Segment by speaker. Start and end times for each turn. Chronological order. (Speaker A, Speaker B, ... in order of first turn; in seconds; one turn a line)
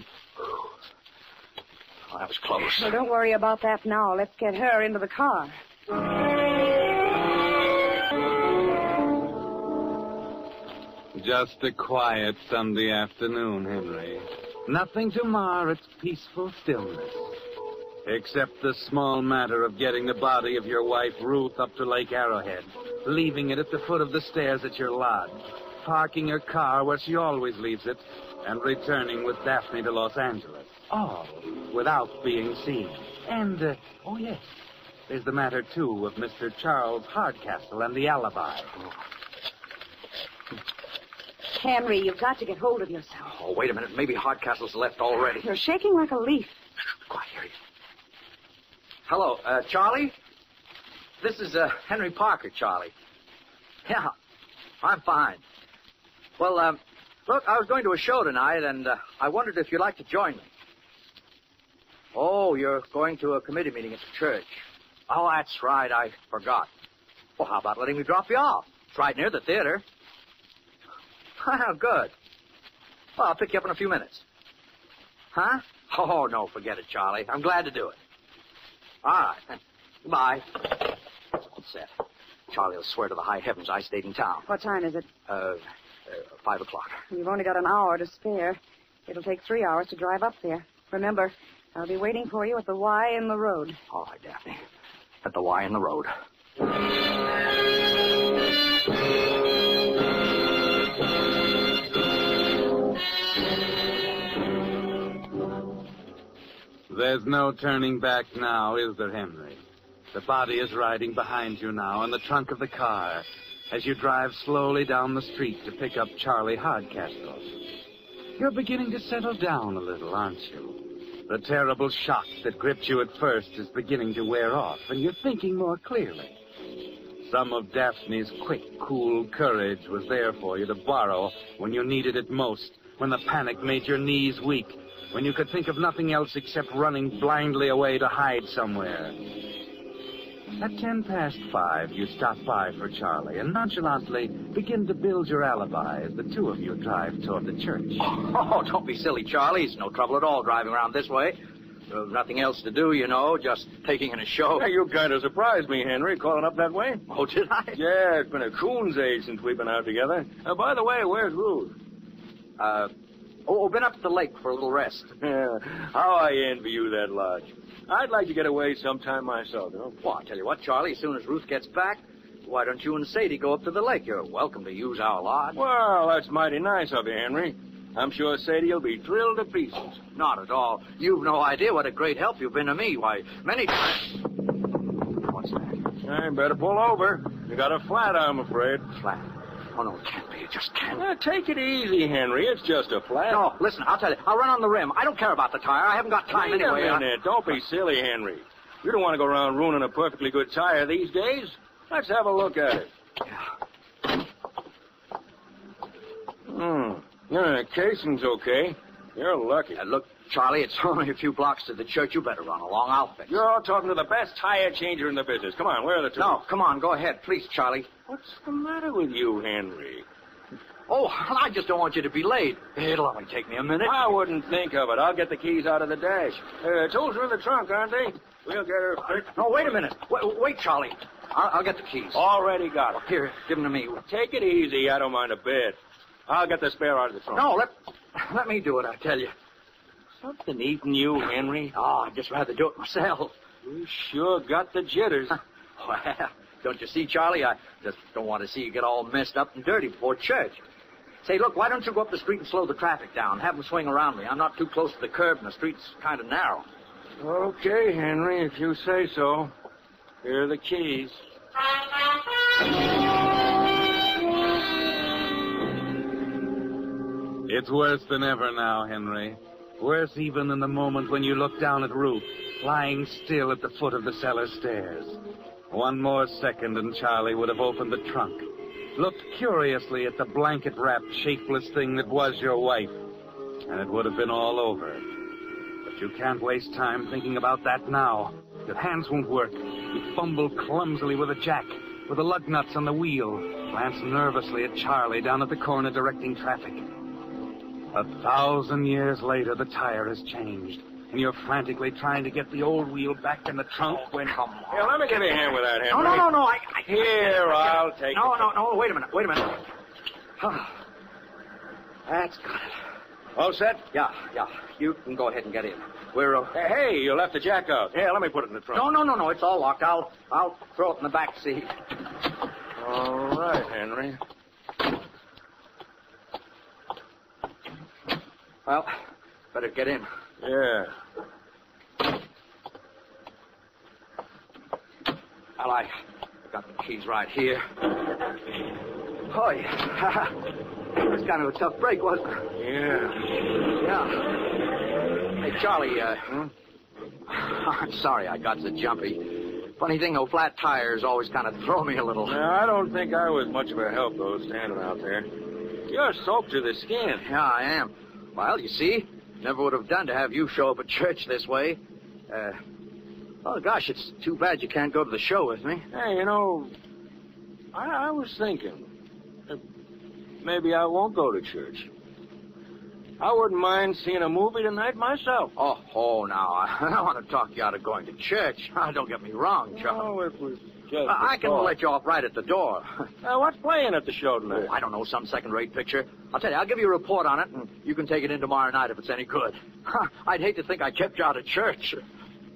Speaker A: 2.1-3.0
Speaker B: 2.7-5.5
Speaker C: 11.2-17.4
Speaker C: 18.0-34.6
Speaker C: 35.1-38.7
Speaker B: 41.5-43.3
Speaker A: 43.2-45.5
Speaker B: 45.4-46.6
Speaker A: 47.1-47.5
Speaker A: 49.1-50.1
Speaker A: 51.2-52.9
Speaker A: 53.9-54.1
Speaker A: 54.8-55.4
Speaker A: 56.4-60.5
Speaker A: 62.1-66.7
Speaker A: 67.4-69.8
Speaker A: 71.4-72.1
Speaker A: 73.2-74.2
Speaker A: 75.3-78.0
Speaker A: 79.0-81.9
Speaker A: 82.5-84.5
Speaker B: 84.5-85.1
Speaker A: 85.3-87.0
Speaker B: 87.1-93.8
Speaker A: 93.9-94.6
Speaker A: 95.2-96.1
Speaker C: 106.9-109.6
Speaker C: 110.1-117.5
Speaker C: 118.4-126.3
Speaker C: 127.2-139.2
Speaker C: 140.6-148.1
Speaker A: 148.0-151.4
Speaker A: 151.9-154.7
Speaker D: 154.6-157.0
Speaker A: 157.1-157.8
Speaker D: 157.7-161.8
Speaker A: 162.6-162.9
Speaker A: 163.5-165.2
Speaker D: 165.2-170.0
Speaker A: 170.0-175.6
Speaker D: 175.6-180.0
Speaker A: 180.2-184.3
Speaker A: 185.1-185.8
Speaker D: 186.0-188.9
Speaker A: 188.9-191.1
Speaker D: 191.0-193.5
Speaker A: 193.3-197.1
Speaker D: 196.3-202.9
Speaker D: 206.5-209.8
Speaker A: 209.8-213.4
Speaker D: 213.3-216.4
Speaker A: 216.2-217.9
Speaker D: 218.1-220.1
Speaker A: 220.9-224.1
Speaker D: 223.8-229.3
Speaker A: 229.3-232.2
Speaker D: 232.1-233.0
Speaker A: 232.9-234.0
Speaker D: 234.1-237.5
Speaker A: 237.3-239.3
Speaker D: 240.2-241.7
Speaker A: 241.7-243.3
Speaker D: 243.6-245.4
Speaker A: 245.8-250.6
Speaker A: 251.2-256.7
Speaker D: 257.2-259.5
Speaker D: 260.2-261.2
Speaker C: 267.5-275.2
Speaker C: 275.7-283.0
Speaker C: 283.7-285.1
Speaker C: 285.9-296.9
Speaker C: 297.9-304.1
Speaker A: 304.1-305.0
Speaker D: 304.1-306.3
Speaker A: 305.9-309.6
Speaker D: 306.8-308.5
Speaker A: 310.4-310.8
Speaker A: 312.1-312.8
Speaker D: 313.4-313.9
Speaker A: 313.9-316.5
Speaker D: 316.5-318.9
Speaker A: 318.7-321.7
Speaker D: 322.8-324.2
Speaker A: 328.7-328.9
Speaker A: 329.5-330.1
Speaker D: 330.4-330.9
Speaker A: 335.6-337.7
Speaker A: 339.3-340.4
Speaker A: 340.9-342.5
Speaker D: 342.6-343.3
Speaker A: 343.8-344.3
Speaker A: 345.4-346.4
Speaker A: 347.3-352.4
Speaker D: 352.3-355.3
Speaker D: 355.9-357.3
Speaker A: 357.2-362.6
Speaker A: 363.4-365.9
Speaker D: 365.9-366.7
Speaker D: 367.7-368.9
Speaker D: 370.4-371.9
Speaker D: 373.2-375.5
Speaker A: 375.6-380.1
Speaker D: 379.7-381.8
Speaker A: 381.1-383.1
Speaker D: 383.2-384.7
Speaker A: 384.5-392.0